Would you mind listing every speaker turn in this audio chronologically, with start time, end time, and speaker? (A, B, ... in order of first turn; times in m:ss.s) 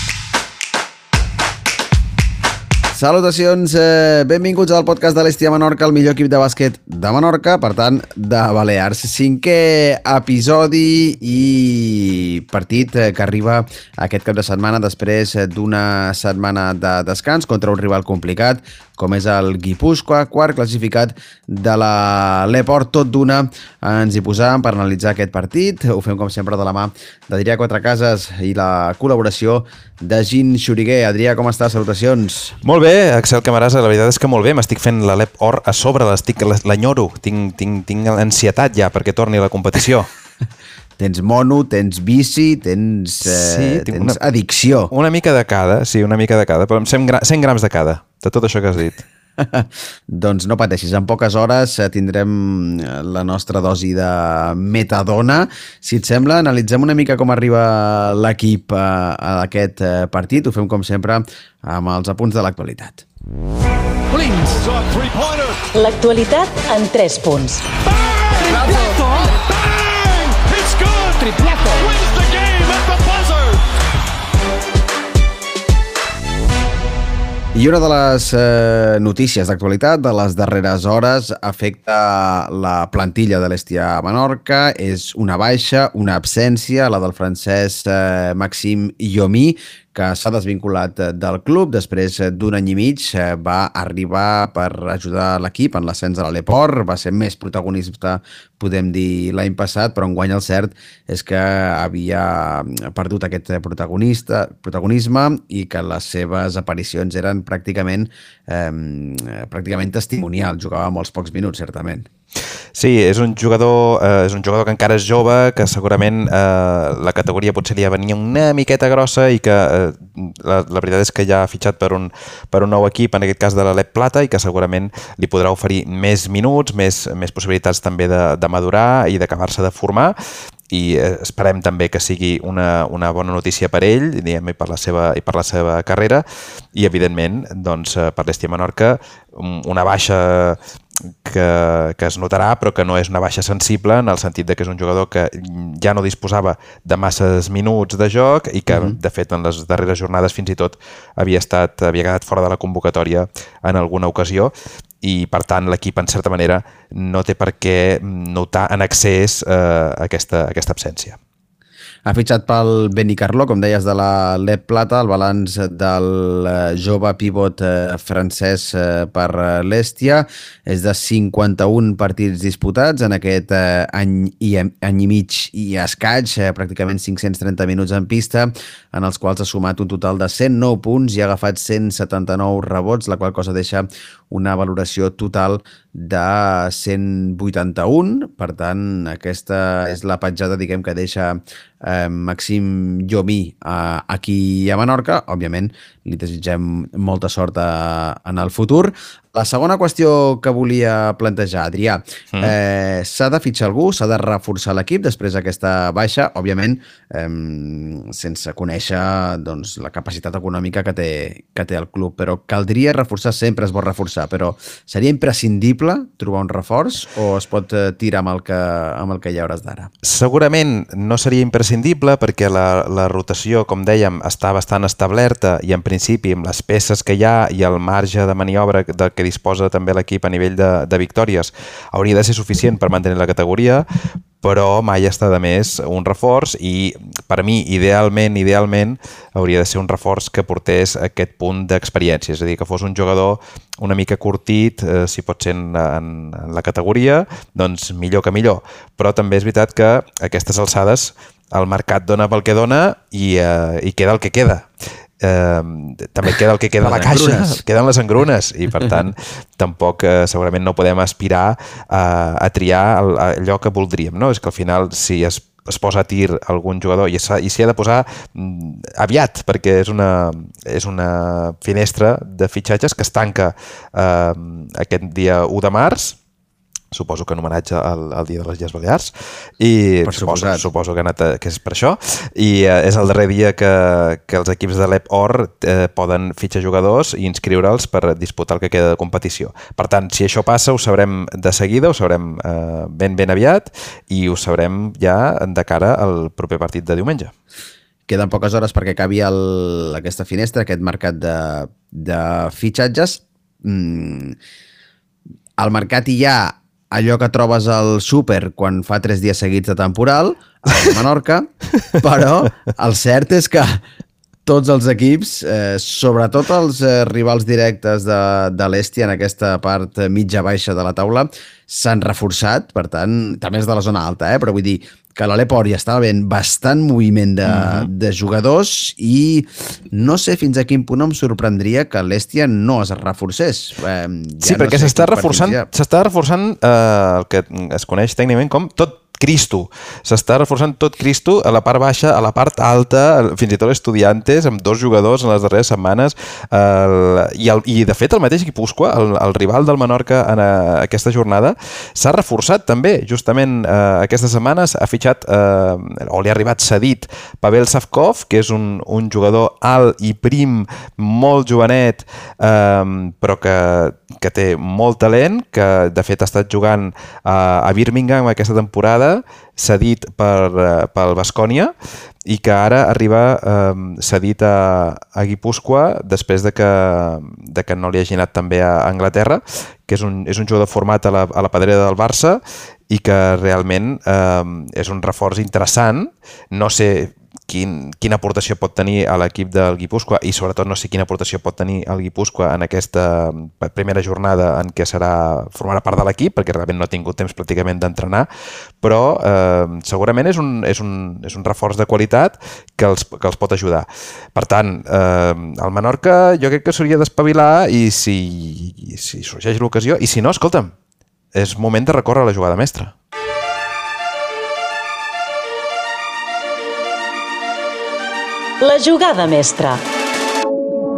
0:02.9-0:32.6 A
0:32.6-0:40.1 B
0:41.0-0:44.9 A
0:43.2-0:44.2 B
0:44.9-0:49.0 B
0:49.4-1:03.0 A
1:04.1-1:05.7 C
1:05.7-1:07.6 D
1:08.3-1:13.6 C
1:17.5-1:52.1 A
1:52.7-2:10.1 B
2:10.7-2:20.6 B
2:21.2-2:41.2 B
2:28.7-2:29.0 A
2:42.0-3:39.9 A
3:40.0-3:53.8 B
3:54.4-4:14.7 B
4:15.2-4:36.2 B
4:16.8-4:17.6 A
4:36.9-4:57.3 B
4:40.0-4:40.6 A
4:58.1-5:04.4 A
5:05.6-5:13.8 A
5:14.4-5:35.7 A
5:27.4-5:27.9 B
5:34.4-6:11.7 B
6:12.2-6:38.3 B
6:38.8-6:50.7 B
6:51.3-6:52.9 B
6:58.6-6:59.8 D